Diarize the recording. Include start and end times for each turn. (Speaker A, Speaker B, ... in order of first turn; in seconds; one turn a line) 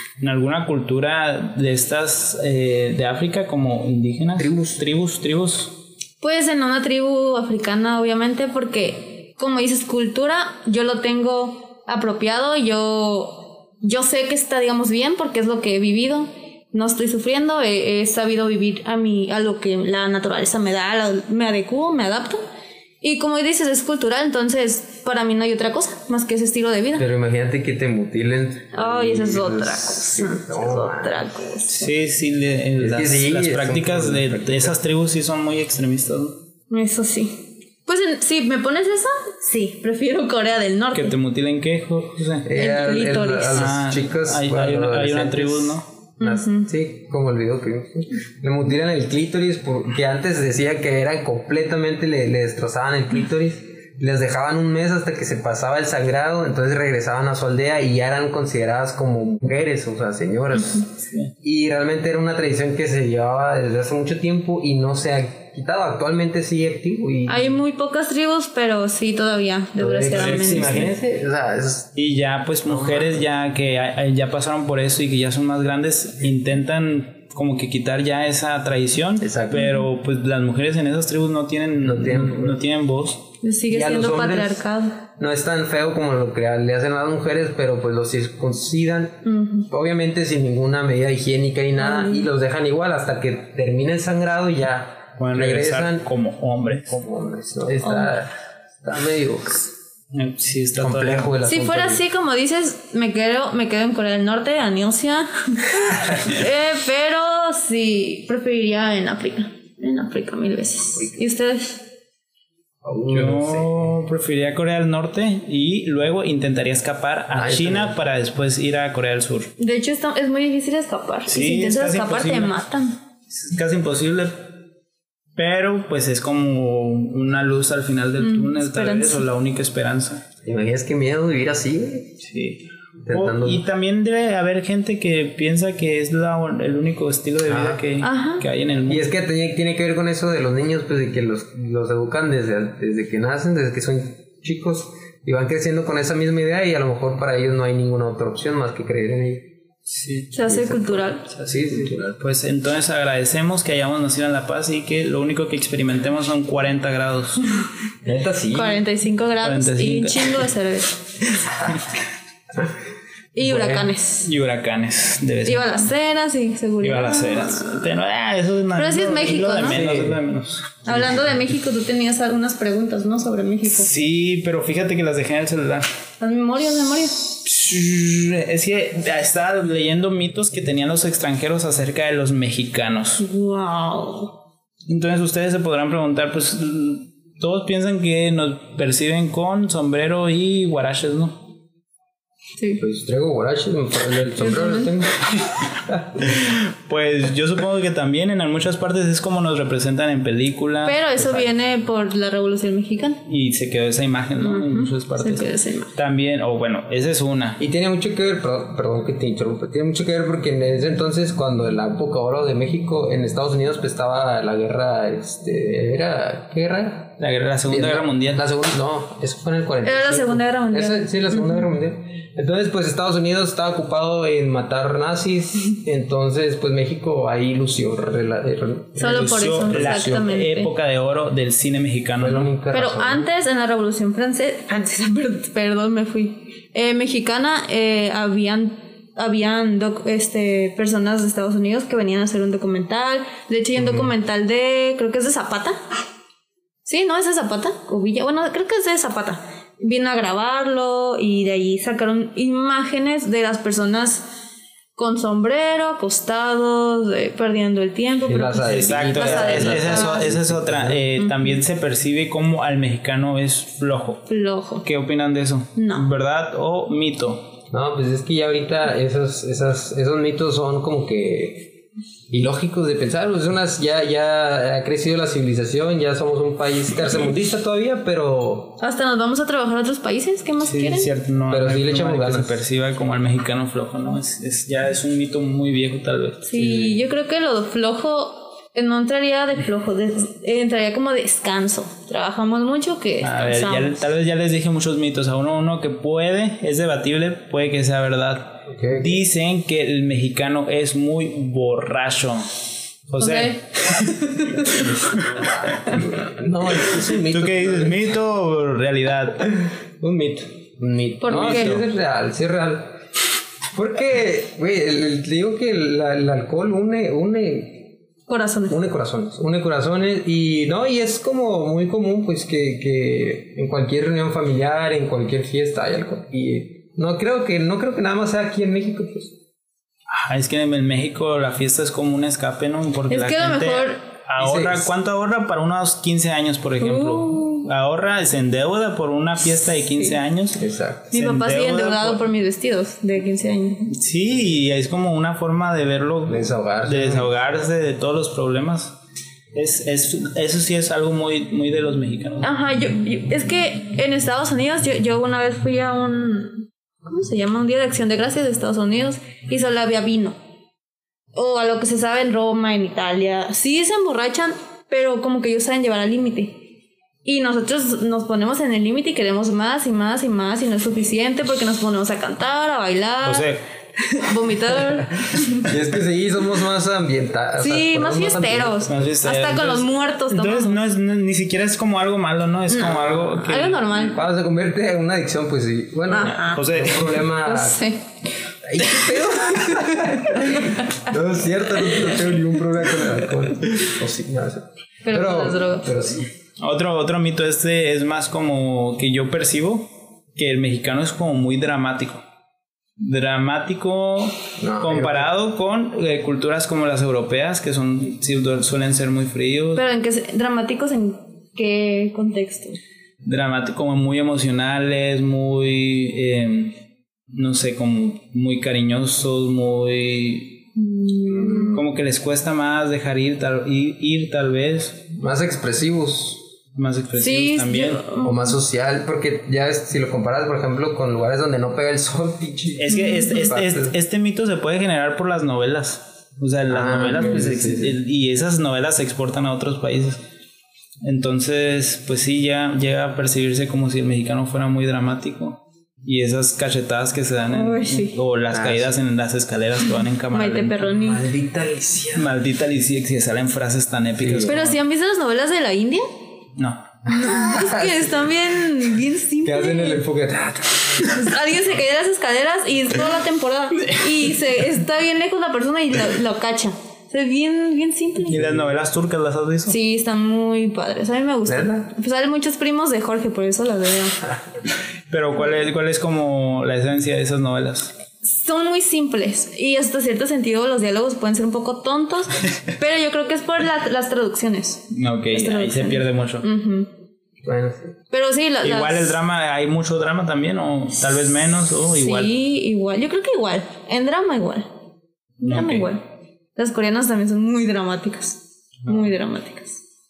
Speaker A: 0.2-5.8
Speaker B: 4.4-4.8
Speaker C: 6.2-22.4
Speaker C: 23.0-27.1
Speaker B: 27.0-31.3
Speaker C: 28.7-31.9
Speaker A: 31.7-36.4
Speaker B: 32.8-34.8
Speaker C: 36.7-41.1
Speaker A: 40.9-42.5
Speaker B: 42.4-67.6
Speaker C: 42.5-43.7
Speaker A: 43.5-45.9
Speaker C: 46.2-46.7
Speaker C: 67.3-70.9
Speaker B: 69.8-71.9
Speaker A: 70.1-70.9
Speaker A: 72.0-83.3
Speaker B: 72.7-73.2
Speaker B: 79.2-79.7
Speaker C: 79.5-79.9
Speaker B: 81.8-82.6
Speaker C: 83.4-85.0
Speaker B: 83.7-84.6
Speaker B: 85.2-96.1
Speaker C: 89.2-89.7
Speaker C: 91.8-92.3
Speaker A: 95.2-97.0
Speaker B: 96.8-99.7
Speaker C: 97.8-98.1
Speaker A: 100.1-101.3
Speaker B: 100.8-102.0
Speaker C: 101.5-111.9
Speaker B: 112.8-113.9
Speaker A: 113.1-119.5
Speaker B: 117.3-118.0
Speaker C: 119.6-123.0
Speaker A: 121.3-122.7
Speaker A: 123.3-124.5
Speaker A: 125.4-130.2
Speaker C: 128.2-129.3
Speaker B: 130.4-132.2
Speaker A: 132.2-139.1
Speaker B: 133.1-133.6
Speaker B: 137.4-137.8
Speaker C: 138.0-138.4
Speaker B: 138.9-149.5
Speaker A: 149.9-150.3
Speaker C: 150.3-151.2
Speaker B: 150.4-152.2
Speaker A: 151.5-157.5
Speaker B: 158.0-158.8
Speaker C: 158.5-161.0
Speaker A: 159.4-160.5
Speaker C: 163.3-164.3
Speaker A: 163.4-165.9
Speaker C: 165.4-167.9
Speaker A: 166.8-170.9
Speaker C: 168.8-169.8
Speaker B: 169.6-170.2
Speaker C: 170.8-173.9
Speaker A: 173.7-175.9
Speaker C: 176.2-177.3
Speaker A: 177.4-183.2
Speaker C: 183.2-184.3
Speaker A: 184.9-191.4
Speaker B: 192.8-195.2
Speaker C: 194.4-194.9
Speaker A: 196.2-201.5
Speaker C: 200.8-203.2
Speaker A: 203.3-207.6
Speaker C: 204.4-205.9
Speaker B: 207.6-217.2
Speaker A: 217.2-218.4
Speaker B: 217.7-230.0
Speaker C: 219.8-221.6
Speaker C: 229.0-230.7
Speaker A: 229.0-232.5
Speaker B: 232.2-233.3
Speaker C: 232.7-245.8
Speaker B: 243.8-244.1
Speaker C: 246.8-254.3
Speaker C: 254.9-260.3
Speaker B: 258.3-261.0
Speaker A: 258.6-264.3
Speaker C: 261.2-261.5
Speaker C: 264.3-264.9
Speaker A: 264.8-267.6
Speaker C: 265.8-266.1
Speaker B: 267.7-271.7
Speaker B: 272.3-278.8
Speaker C: 278.8-281.1
Speaker A: 280.6-286.4
Speaker B: 281.5-282.6
Speaker C: 286.4-294.0
Speaker B: 286.5-287.0
Speaker A: 293.2-302.5
Speaker B: 298.7-299.2
Speaker A: 303.1-306.0
Speaker C: 303.2-304.9
Speaker B: 304.8-305.2
Speaker B: 305.9-308.1
Speaker A: 306.8-309.5
Speaker B: 310.0-313.0
Speaker C: 311.2-311.8
Speaker A: 311.3-311.9
Speaker B: 313.7-317.9
Speaker C: 318.3-318.8
Speaker B: 318.7-329.3
Speaker A: 330.1-342.2
Speaker C: 333.1-334.0
Speaker B: 334.4-334.9
Speaker C: 336.8-337.7
Speaker B: 340.6-341.1
Speaker C: 341.1-343.9
Speaker A: 343.9-348.9
Speaker B: 346.3-347.3
Speaker A: 349.5-352.5
Speaker C: 352.4-360.4
Speaker C: 361.3-366.7
Speaker C: 367.2-373.5
Speaker A: 373.2-373.6
Speaker C: 374.0-375.7
Speaker B: 375.6-379.1
Speaker C: 377.6-380.8
Speaker A: 378.9-383.9
Speaker C: 382.7-384.2
Speaker B: 384.1-387.8
Speaker C: 386.1-386.6
Speaker A: 386.4-387.2
Speaker C: 387.4-388.1
Speaker B: 388.6-396.2
Speaker C: 389.7-390.9
Speaker C: 395.1-395.9
Speaker A: 396.6-402.2
Speaker A: 403.0-409.8
Speaker B: 404.6-405.3
Speaker C: 409.7-412.8
Speaker A: 413.2-416.8
Speaker A: 417.3-420.6
Speaker C: 420.8-421.8
Speaker A: 421.6-425.1
Speaker B: 425.1-426.4
Speaker A: 426.7-428.1
Speaker C: 427.2-428.5
Speaker B: 428.2-433.9
Speaker A: 432.8-440.2
Speaker C: 432.9-433.3
Speaker B: 436.7-438.0
Speaker A: 441.0-450.8
Speaker C: 447.5-448.2
Speaker B: 448.5-449.0
Speaker C: 450.3-451.2
Speaker B: 450.8-452.3
Speaker A: 452.1-454.8
Speaker B: 454.2-454.6
Speaker C: 454.4-456.1
Speaker A: 456.6-457.2
Speaker C: 457.1-460.0
Speaker B: 457.5-458.1
Speaker B: 459.4-461.1
Speaker C: 461.0-468.4
Speaker A: 468.3-469.8
Speaker B: 468.3-468.7
Speaker C: 469.7-474.2
Speaker B: 471.4-471.9
Speaker A: 475.1-477.9
Speaker C: 478.2-486.9
Speaker A: 484.9-486.4
Speaker B: 487.4-487.9
Speaker C: 488.1-489.2
Speaker A: 488.6-492.3
Speaker C: 491.9-494.7
Speaker C: 495.4-496.0
Speaker A: 495.4-495.9
Speaker C: 496.6-499.8